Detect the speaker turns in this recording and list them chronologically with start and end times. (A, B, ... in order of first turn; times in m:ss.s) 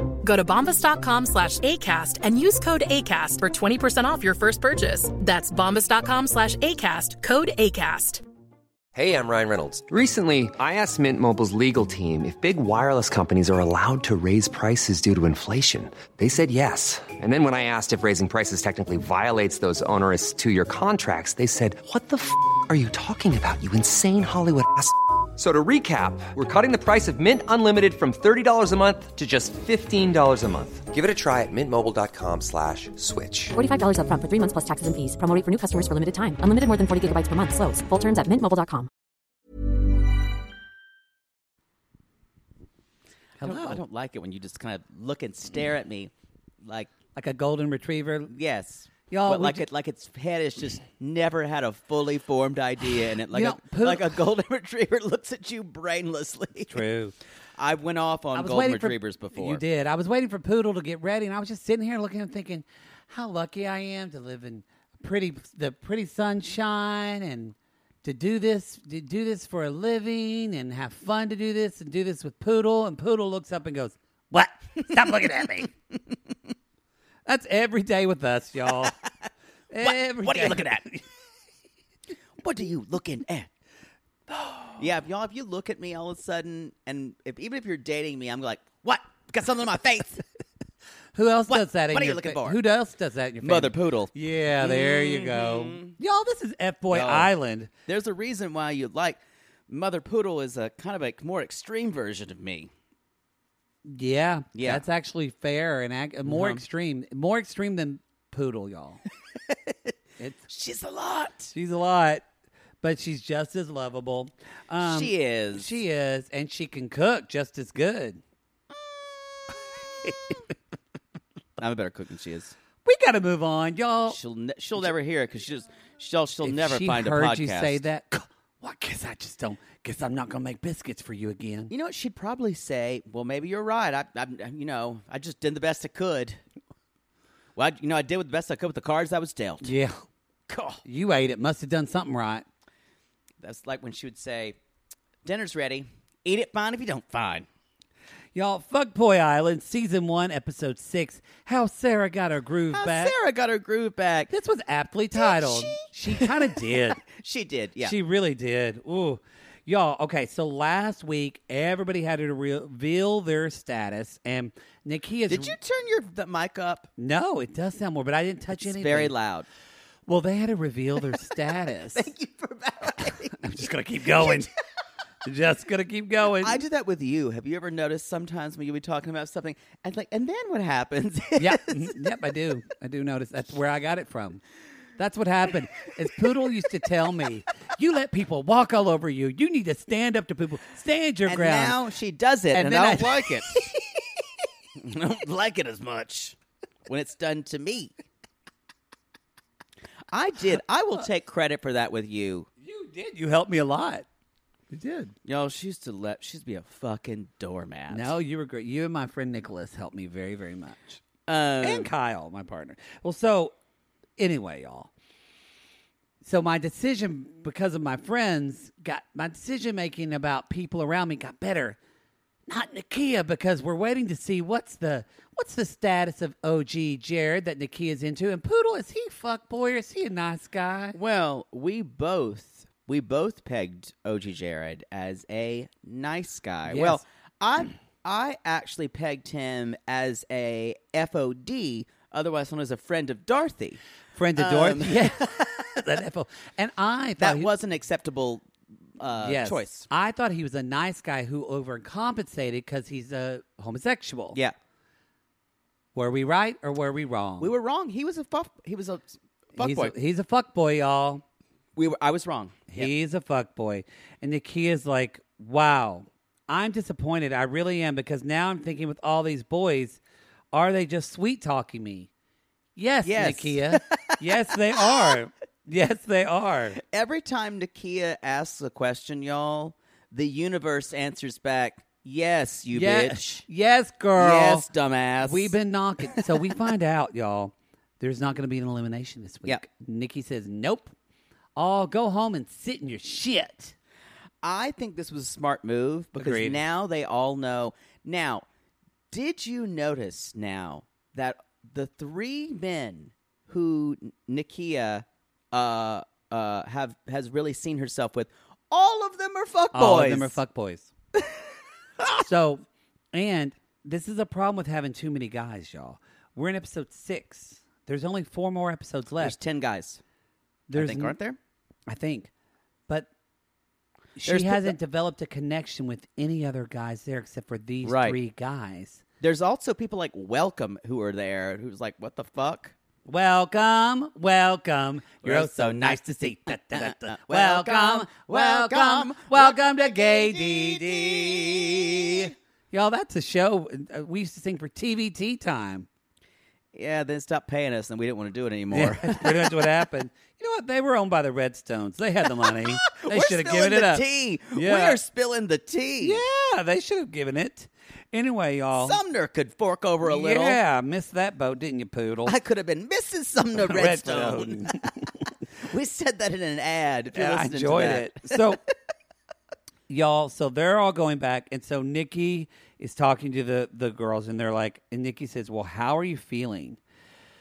0:00.2-0:08.2 A
0:08.9-0:33.6 B
0:33.5-0:38.9 C
0:43.4-0:43.8 D
0:43.4-0:46.1 E
0:46.6-0:46.9 E
0:47.2-0:48.3 D
0:48.3-0:56.9 E
0:49.1-0:49.6 D
0:53.3-0:54.2 D
0:56.7-0:57.2 D
0:57.6-0:59.6 E
0:58.3-1:15.7 D
1:17.3-1:19.0 D
1:19.7-1:21.0 D
1:19.8-1:20.9 E
1:22.4-1:23.5 E
1:24.4-1:24.7 D
1:24.8-1:30.2 E
1:31.2-1:37.7 D
1:31.5-1:32.6 E
1:33.4-1:36.0 E
1:36.9-1:37.3 E
1:37.9-1:42.7 E
1:43.8-1:49.0 D
1:44.5-1:44.8 E
1:46.2-1:46.6 E
1:49.5-1:49.7 E
1:50.2-1:50.5 D
1:50.5-1:51.5 E
1:51.5-1:52.3 D
1:52.8-1:58.2 D
1:54.8-1:55.7 E
2:01.6-2:02.6 E
2:02.8-2:04.2 D
2:04.1-2:07.8 E
2:06.4-2:11.7 D
2:11.7-2:16.4 E
2:17.6-2:19.7 E
2:19.6-2:20.0 D
2:20.5-2:20.8 E
2:20.8-2:22.4 D
2:23.4-2:24.6 E
2:25.2-2:27.5 E
2:28.4-2:33.2 D
2:32.7-2:34.3 E
2:34.3-2:37.0 D
2:35.2-2:38.0 E
2:37.8-2:45.6 D
2:45.3-2:46.9 E
2:47.0-2:49.1 D
2:48.6-2:49.5 E
2:50.1-2:52.1 D
2:51.9-2:54.5 E
2:53.3-2:54.5 D
2:55.2-2:56.6 D
2:56.4-3:02.1 E
3:01.4-3:04.4 D
3:05.0-3:11.8 D
3:11.3-3:13.7 E
3:12.5-3:13.8 D
3:14.8-3:16.4 E
3:16.9-3:18.0 E
3:20.1-3:22.5 E
3:22.6-3:24.0 D
3:24.7-3:25.2 D
3:25.2-3:28.2 E
3:27.9-3:31.0 D
3:31.3-3:31.9 E
3:31.6-3:33.5 D
3:34.2-3:34.9 D
3:36.2-3:41.8 D
3:42.5-3:51.0 D
3:50.9-4:03.8 E
3:56.7-3:57.0 D
4:04.2-4:07.5 D
4:04.4-4:05.6 E
4:07.2-4:08.5 E
4:09.0-4:09.9 E
4:09.2-4:14.4 D
4:16.0-4:17.5 D
4:17.4-4:19.9 E
4:19.6-4:21.2 D
4:21.8-4:22.9 E
4:22.7-4:30.0 D
4:30.5-4:32.1 D
4:32.8-4:36.8 D
4:33.0-4:35.2 E
4:36.8-4:43.4 E
4:42.7-4:44.7 D
4:44.2-4:45.5 E
4:45.2-4:50.9 D
4:51.6-4:53.8 D
4:54.4-4:58.4 E
4:56.2-4:56.6 D
4:59.1-5:10.4 E
5:09.7-5:10.9 D
5:12.2-5:19.4 D
5:19.2-5:20.0 E
5:20.7-5:21.2 D
5:20.7-5:21.4 E
5:21.9-5:22.3 D
5:24.2-5:29.0 D
5:24.2-5:24.8 E
5:27.8-5:28.2 E
5:29.2-5:32.7 E
5:33.1-5:45.9 D
5:35.2-5:42.3 E
5:46.7-5:49.7 E
5:48.7-5:55.0 D
5:52.4-5:56.2 E
5:56.0-5:59.0 D
5:58.8-6:00.6 E
6:00.0-6:02.4 D
6:02.2-6:04.9 E
6:03.6-6:05.0 D
6:05.6-6:08.5 E
6:07.1-6:08.6 D
6:09.9-6:16.8 D